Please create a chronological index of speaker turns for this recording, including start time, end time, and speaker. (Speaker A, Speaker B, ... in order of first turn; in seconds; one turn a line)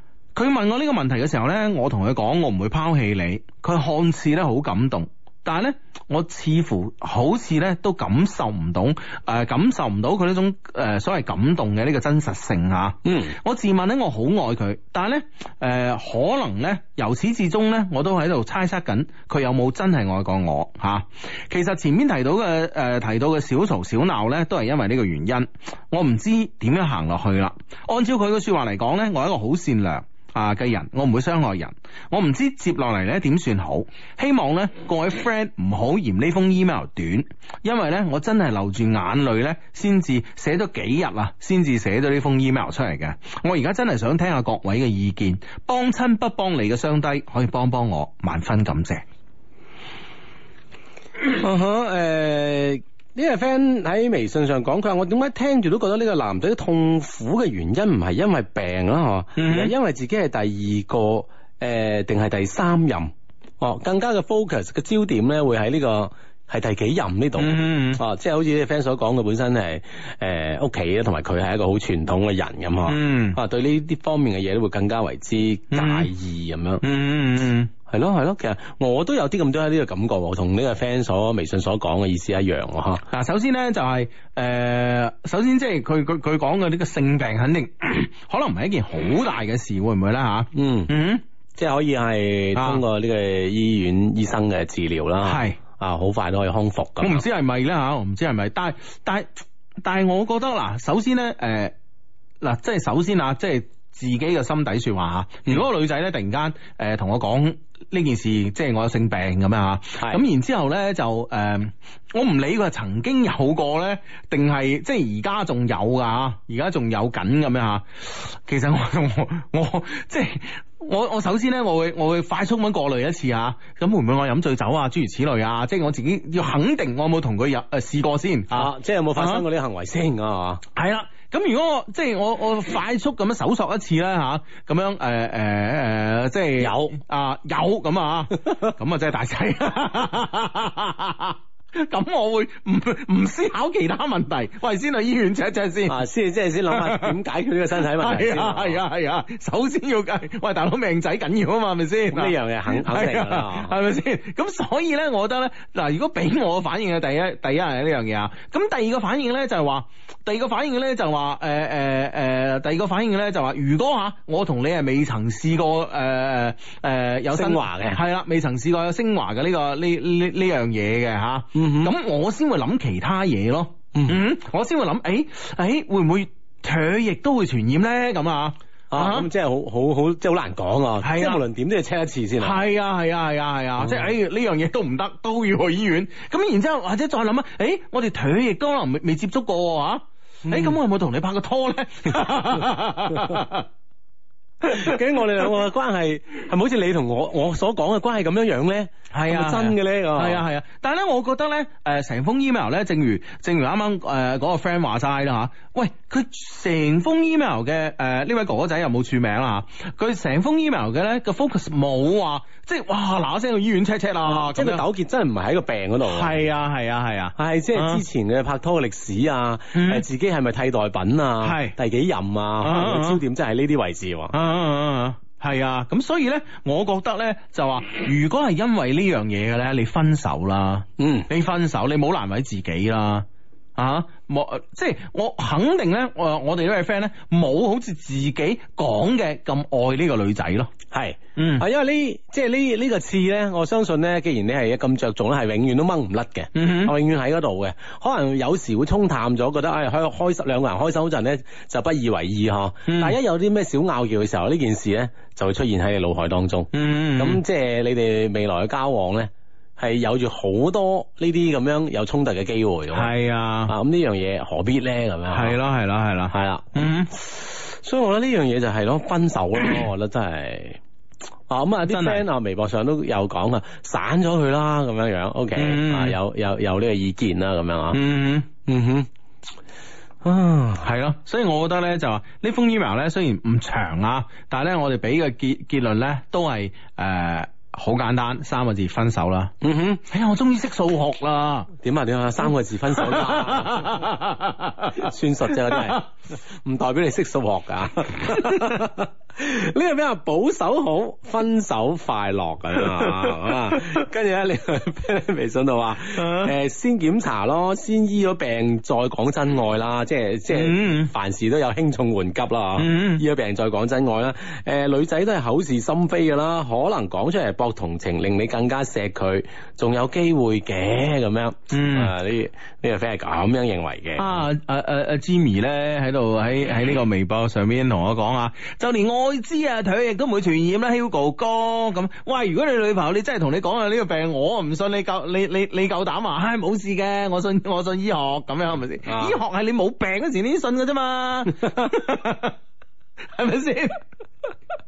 Speaker A: 0.3-49.0
Speaker B: 13.0-13.3
Speaker B: 51.2-76.8
Speaker A: 59.4-59.7
Speaker A: 67.4-68.0
Speaker A: 72.9-73.4
Speaker A: 75.7-76.1
Speaker A: 76.8-77.7
Speaker B: 77.9-83.0
Speaker A: 83.1-91.2
Speaker B: 90.5-90.9
Speaker B: 91.6-97.2
Speaker A: 92.5-92.8
Speaker A: 95.2-95.6
Speaker A: 97.0-99.3
Speaker A: 99.8-101.7
Speaker A: 102.4-129.4
Speaker B: 128.5-130.6
Speaker A: 130.7-146.0
Speaker B: 136.6-137.0
Speaker B: 145.8-148.8
Speaker A: 146.7-147.2
Speaker A: 147.7-179.3
Speaker B: 152.1-153.8
Speaker B: 167.3-168.0
Speaker B: 171.5-171.9
Speaker B: 173.9-174.2
Speaker B: 178.9-182.6
Speaker A: 181.0-181.4
Speaker A: 182.4-193.7
Speaker B: 183.8-184.1
Speaker B: 190.4-190.8
Speaker A: 194.6-195.4
Speaker B: 194.6-200.4
Speaker A: 199.1-214.8
Speaker B: 214.2-216.4
Speaker A: 216.0-218.0
Speaker B: 217.4-224.3
Speaker A: 219.7-220.0
Speaker A: 221.4-221.8
Speaker A: 222.6-223.2
Speaker A: 224.3-240.7
Speaker B: 231.0-231.3
Speaker B: 240.9-263.1
Speaker A: 241.3-241.7
Speaker A: 246.5-246.9
Speaker A: 252.8-253.2
Speaker A: 256.7-257.4
Speaker A: 262.9-263.7
Speaker B: 263.7-265.6
Speaker A: 265.3-267.1
Speaker B: 266.3-270.8
Speaker B: 271.5-278.0
Speaker A: 271.9-272.2
Speaker A: 275.5-276.2
Speaker A: 277.9-278.5
Speaker B: 278.6-279.1
Speaker B: 280.2-280.8
Speaker A: 280.8-291.7
Speaker B: 289.6-290.0
Speaker B: 291.8-294.1
Speaker A: 292.9-296.0
Speaker B: 294.9-324.4
Speaker A: 298.3-298.8
Speaker A: 302.8-304.0
Speaker A: 306.1-306.5
Speaker A: 310.5-311.1
Speaker A: 312.8-313.2
Speaker A: 321.7-322.1
Speaker A: 324.2-342.6
Speaker B: 339.1-339.4
Speaker A: 343.3-344.0